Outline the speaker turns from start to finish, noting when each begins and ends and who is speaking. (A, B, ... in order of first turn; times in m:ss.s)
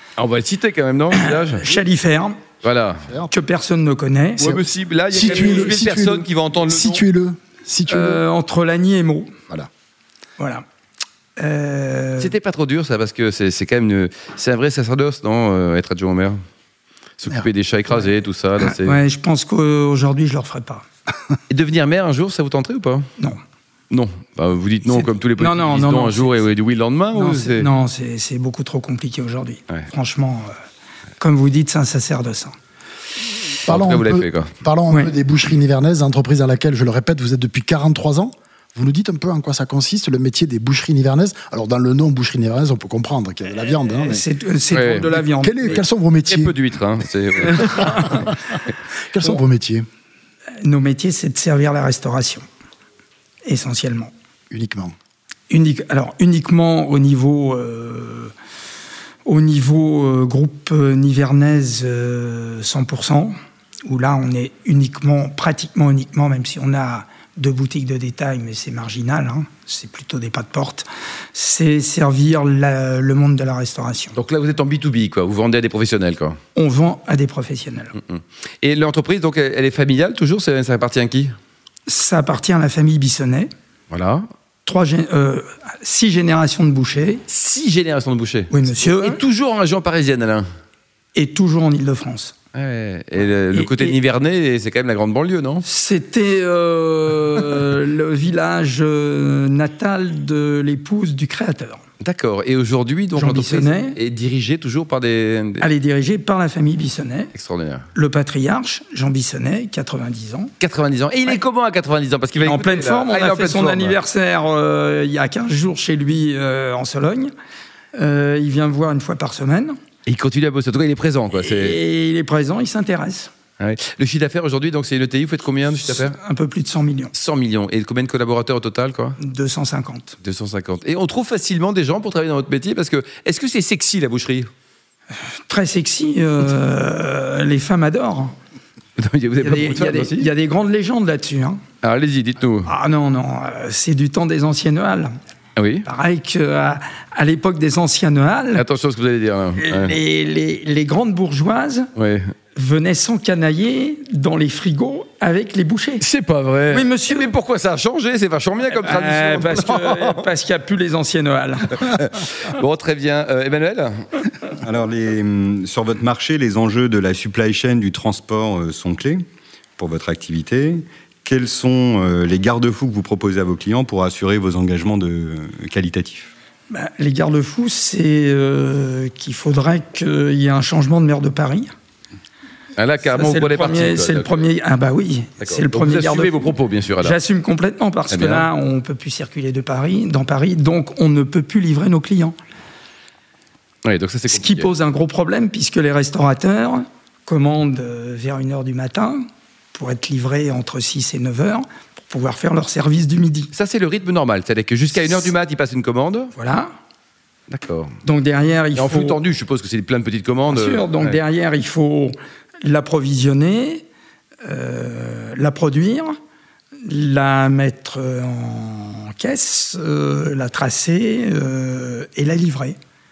0:00.2-0:01.8 A
0:01.1-0:02.4 B
0:02.6-0:03.0 A
0:03.0-0:03.3 C
0:03.3-0:04.6 B
0:04.4-0:07.0 A
0:05.1-0:08.2 C
0:07.9-0:09.3 B
0:10.4-0:10.6 B
0:11.4-0:12.3 B
0:12.2-0:16.4 A
0:17.2-0:19.0 A
0:18.6-0:20.8 B
0:21.5-0:23.0 A
0:23.9-0:27.7 A
0:25.4-0:26.4 B
0:27.1-0:30.5 B
0:31.2-0:32.5 B
0:33.6-0:44.2 C
0:33.7-0:34.5 A
0:34.9-0:35.1 B
0:43.9-0:45.8 B
0:44.7-0:45.2 A
0:45.2-0:46.6 C
0:46.3-0:48.2 A
0:47.6-0:48.2 B
0:48.0-0:48.3 C
0:49.1-0:49.8 C
0:50.6-0:52.4 B
0:53.4-0:54.1 B
0:54.5-0:54.9 C
0:55.5-0:58.3 B
0:59.2-1:03.3 B
1:03.8-1:14.2 B
1:14.1-1:16.4 A
1:16.5-1:17.9 B
1:18.0-1:21.3 A
1:21.9-1:23.5 B
1:23.9-1:24.2 A
1:24.6-1:27.2 B
1:27.3-1:30.4 A
1:28.5-1:29.2 B
1:31.1-1:32.3 B
1:32.5-1:35.6 A
1:33.5-1:33.9 B
1:35.6-1:41.8 B
1:42.0-1:45.7 A
1:43.1-1:44.0 B
1:45.6-1:47.3 B
1:47.3-1:47.8 A
1:47.9-1:50.5 B
1:50.6-1:54.0 A
1:52.4-1:57.3 B
1:57.9-1:59.8 B
2:00.0-2:01.8 A
2:01.4-2:03.3 B
2:03.6-2:06.2 A
2:05.9-2:07.1 B
2:07.1-2:09.2 A
2:09.2-2:10.2 B
2:10.2-2:14.5 A
2:15.5-2:18.3 B
2:19.0-2:20.3 A
2:19.4-2:21.6 B
2:21.8-2:22.7 A
2:22.6-2:25.1 B
2:25.6-2:25.8 A
2:25.8-2:28.6 B
2:28.5-2:29.9 A
2:29.6-2:31.9 B
2:32.0-2:32.2 A
2:32.5-2:36.0 B
2:36.0-2:40.2 A
2:36.7-2:37.3 B
2:38.7-2:42.0 B
2:41.8-2:44.0 A
2:44.6-2:49.2 D
2:49.8-2:56.3 D
2:56.7-3:01.7 B
3:02.8-3:04.4 A
3:03.0-3:06.4 B
3:05.4-3:07.2 A
3:07.0-3:12.3 B
3:08.1-3:08.5 A
3:13.8-3:14.7 A
3:14.3-3:19.2 B
3:19.7-3:23.5 B
3:23.5-3:26.3 A
3:26.4-3:26.7 B
3:27.5-3:27.9 A
3:28.0-3:29.2 B
3:28.8-3:31.2 A
3:30.5-3:33.8 B
3:34.4-3:36.2 B
3:36.8-3:42.8 B